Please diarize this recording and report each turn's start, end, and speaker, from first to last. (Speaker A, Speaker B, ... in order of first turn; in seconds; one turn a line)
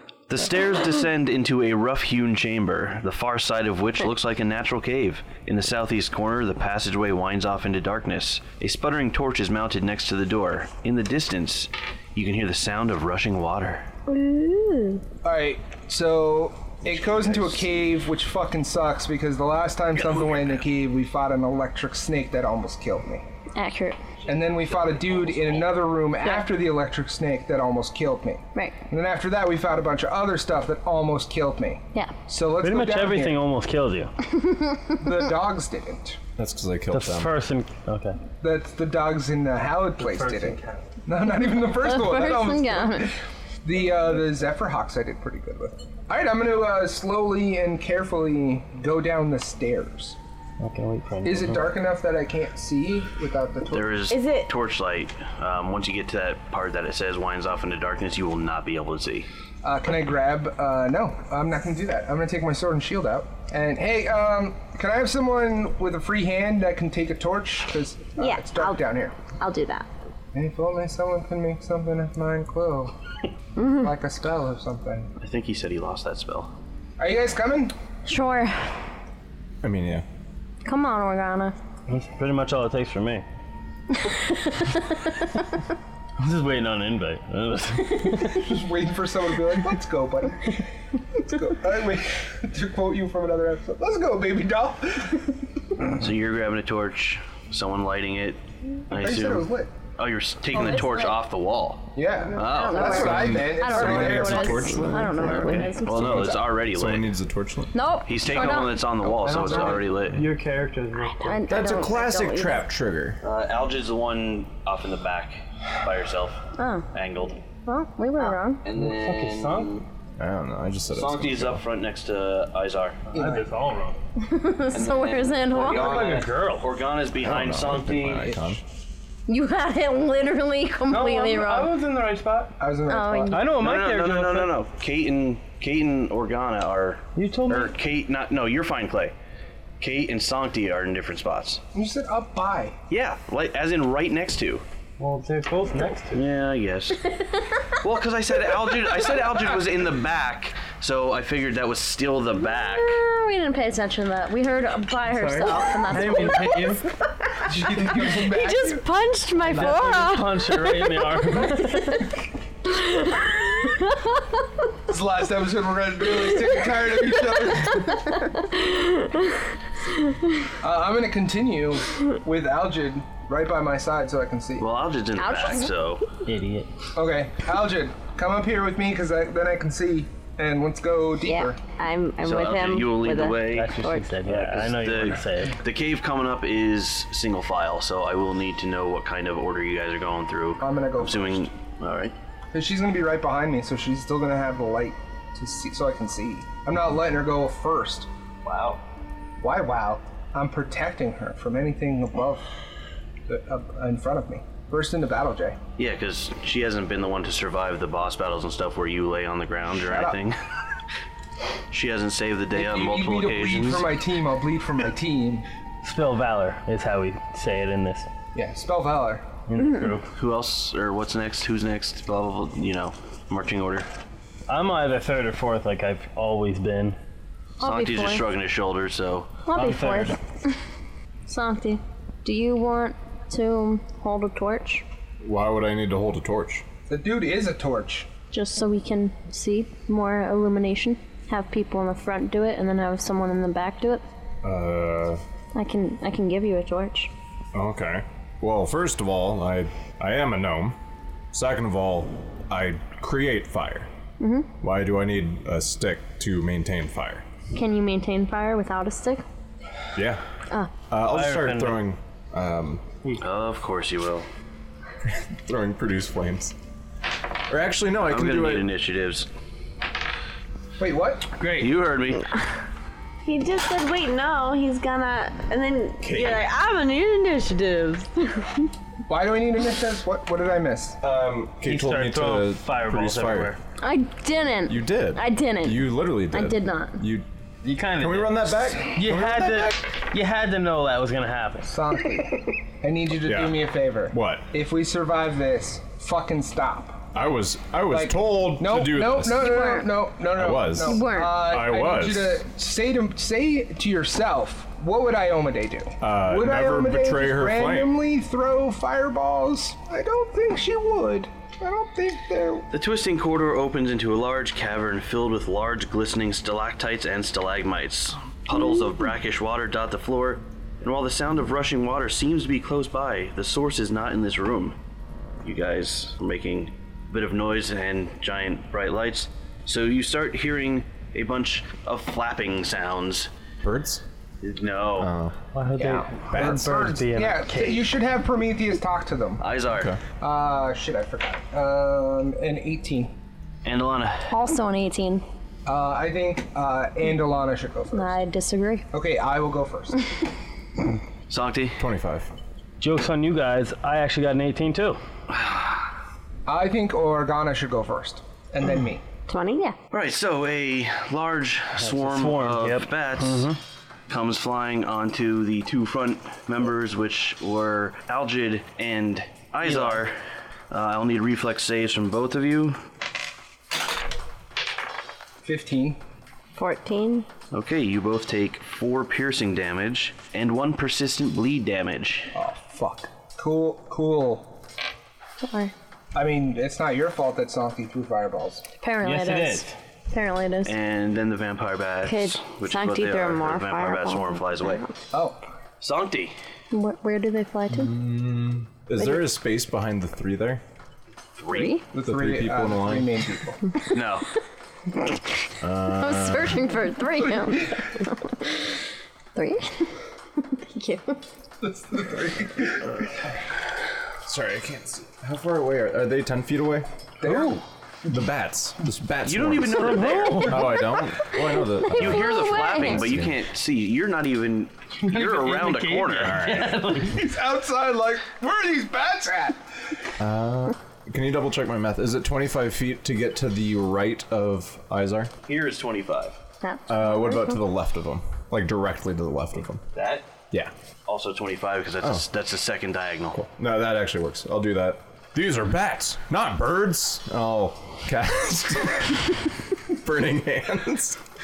Speaker A: 0.3-13.9
Speaker B: 14.1-15.0
Speaker C: 15.2-23.2
Speaker A: 17.0-17.5
Speaker A: 19.9-20.6
Speaker D: 23.6-24.0
Speaker C: 24.3-33.4
Speaker E: 32.6-34.1
Speaker D: 34.3-35.0
Speaker C: 35.0-36.2
Speaker F: 36.4-37.3
Speaker E: 36.9-38.2
Speaker C: 38.4-50.2
Speaker E: 40.0-40.9
Speaker D: 41.8-43.1
Speaker E: 50.6-51.7
Speaker C: 51.2-53.9
Speaker A: 53.7-59.3
Speaker B: 54.1-54.5
Speaker C: 59.6-69.2
Speaker B: 68.2-69.9
Speaker C: 70.3-72.9
Speaker B: 73.6-73.8
Speaker C: 73.8-75.1
Speaker A: 75.2-76.5
Speaker C: 77.0-77.7
Speaker D: 78.0-78.7
Speaker F: 79.6-80.0
Speaker D: 80.6-81.5
Speaker E: 81.9-83.2
Speaker D: 84.0-85.1
Speaker E: 86.2-88.5
Speaker C: 88.2-90.6
Speaker C: 91.1-95.3
Speaker A: 96.0-103.3
Speaker C: 98.9-99.7
Speaker D: 100.6-101.1
Speaker C: 101.9-104.9
Speaker D: 102.4-106.4
Speaker F: 102.9-107.8
Speaker A: 105.8-107.1
Speaker D: 107.7-108.8
Speaker A: 108.0-110.3
Speaker C: 108.3-109.8
Speaker E: 109.1-111.5
Speaker D: 111.1-112.6
Speaker F: 111.5-113.2
Speaker A: 113.2-117.4
Speaker D: 116.6-116.9
Speaker D: 117.7-118.6
Speaker A: 118.6-119.9
Speaker E: 118.8-119.7
Speaker F: 120.2-121.6
Speaker A: 120.9-123.0
Speaker E: 123.1-124.0
Speaker C: 123.1-123.5
Speaker D: 124.2-126.2
Speaker A: 124.7-128.4
Speaker E: 125.6-126.7
Speaker F: 127.2-128.6
Speaker D: 129.3-131.8
Speaker E: 130.9-132.6
Speaker C: 132.6-133.4
Speaker D: 132.9-133.5
Speaker E: 133.3-134.5
Speaker A: 133.6-139.1
Speaker E: 137.1-137.7
Speaker A: 139.8-141.6
Speaker C: 141.7-142.8
Speaker A: 142.9-144.6
Speaker E: 145.0-146.2
Speaker A: 146.1-147.1
Speaker A: 147.7-153.0
Speaker D: 152.6-156.8
Speaker E: 155.1-156.9
Speaker C: 157.4-158.9
Speaker B: 158.1-160.4
Speaker E: 159.4-162.1
Speaker C: 159.5-159.8
Speaker C: 164.9-168.1
Speaker B: 168.6-169.2
Speaker C: 170.6-174.7
Speaker A: 174.6-176.1
Speaker D: 175.1-175.8
Speaker E: 176.2-176.7
Speaker C: 176.9-181.6
Speaker B: 181.2-184.1
Speaker A: 182.2-192.1
Speaker E: 183.5-185.6
Speaker C: 190.6-191.5
Speaker C: 192.5-198.1
Speaker A: 198.4-198.8
Speaker C: 199.4-202.4
Speaker C: 203.3-205.6
Speaker A: 205.8-210.4
Speaker C: 209.8-210.2
Speaker A: 211.7-213.9
Speaker C: 212.5-215.4
Speaker E: 215.8-218.1
Speaker C: 218.3-219.3
Speaker E: 219.5-220.1
Speaker A: 220.1-223.9
Speaker E: 224.5-227.0
Speaker D: 227.6-228.3
Speaker A: 227.6-229.3
Speaker D: 229.4-230.5
Speaker E: 229.5-230.2
Speaker D: 231.3-234.8
Speaker F: 235.2-236.6
Speaker C: 236.9-238.1
Speaker D: 238.3-244.0
Speaker F: 244.4-245.2
Speaker D: 245.5-247.1
Speaker F: 247.5-250.8
Speaker F: 251.3-253.9
Speaker D: 254.2-254.5
Speaker F: 254.6-257.2
Speaker D: 257.5-259.2
Speaker F: 259.9-260.2
Speaker F: 260.9-262.8
Speaker E: 261.1-261.9
Speaker A: 263.2-264.3
Speaker F: 265.0-266.6
Speaker F: 267.5-268.7
Speaker A: 268.0-269.3
Speaker C: 270.8-271.4
Speaker E: 271.4-271.7
Speaker A: 271.4-272.3
Speaker B: 273.2-278.7
Speaker F: 276.0-276.5
Speaker C: 279.1-281.0
Speaker F: 281.0-283.5
Speaker E: 281.6-283.6
Speaker D: 283.8-287.0
Speaker F: 284.7-287.3
Speaker E: 287.6-291.8
Speaker F: 287.9-289.8
Speaker C: 291.6-297.1
Speaker F: 293.2-294.5
Speaker F: 297.1-299.6
Speaker C: 297.9-312.7
Speaker D: 299.4-300.0
Speaker F: 300.3-302.4
Speaker D: 300.8-301.4
Speaker F: 306.0-308.0
Speaker A: 312.7-324.8
Speaker A: 325.4-333.3
Speaker F: 333.6-334.0
Speaker A: 334.4-335.1
Speaker F: 335.0-335.4
Speaker E: 335.5-337.9
Speaker C: 335.8-339.4
Speaker F: 336.3-336.7
Speaker A: 339.4-339.9
Speaker F: 339.8-340.0
Speaker C: 340.2-343.2
Speaker A: 343.6-344.3
Speaker D: 344.3-345.2
Speaker C: 345.6-348.2
Speaker D: 347.9-348.9
Speaker C: 348.9-350.0
Speaker A: 351.3-351.8
Speaker F: 351.8-352.3
Speaker E: 352.8-355.0
Speaker A: 355.3-355.9
Speaker C: 356.5-359.1
Speaker B: 359.3-359.7
Speaker A: 359.9-363.5
Speaker E: 361.8-363.6
Speaker A: 364.1-370.2
Speaker E: 369.6-370.0
Speaker A: 370.7-372.8
Speaker C: 375.4-376.0
Speaker B: 376.6-377.3
Speaker A: 377.5-382.3
Speaker C: 382.3-384.6
Speaker B: 385.4-385.7
Speaker C: 386.1-388.6
Speaker D: 388.8-390.7
Speaker E: 389.0-389.7
Speaker A: 390.6-394.8
Speaker B: 392.1-394.9
Speaker C: 395.1-395.4
Speaker A: 395.8-396.4
Speaker D: 396.7-397.9
Speaker F: 397.7-400.6
Speaker A: 401.4-401.8
Speaker D: 401.5-401.9
Speaker C: 401.9-403.7
Speaker F: 402.0-403.2
Speaker A: 403.9-404.3
Speaker F: 405.6-406.8
Speaker D: 406.0-408.5
Speaker D: 409.4-409.9
Speaker D: 410.7-411.0
Speaker C: 411.6-413.1
Speaker F: 414.2-423.4
Speaker C: 417.2-417.6
Speaker A: 419.2-420.9
Speaker D: 420.8-423.1
Speaker A: 421.9-426.5
Speaker E: 425.0-427.3
Speaker F: 426.2-427.1
Speaker C: 427.1-430.0
Speaker F: 430.2-435.3
Speaker A: 435.4-436.4
Speaker D: 436.6-437.5
Speaker F: 436.9-439.8
Speaker A: 439.9-440.3
Speaker A: 441.1-443.4
Speaker F: 443.3-451.2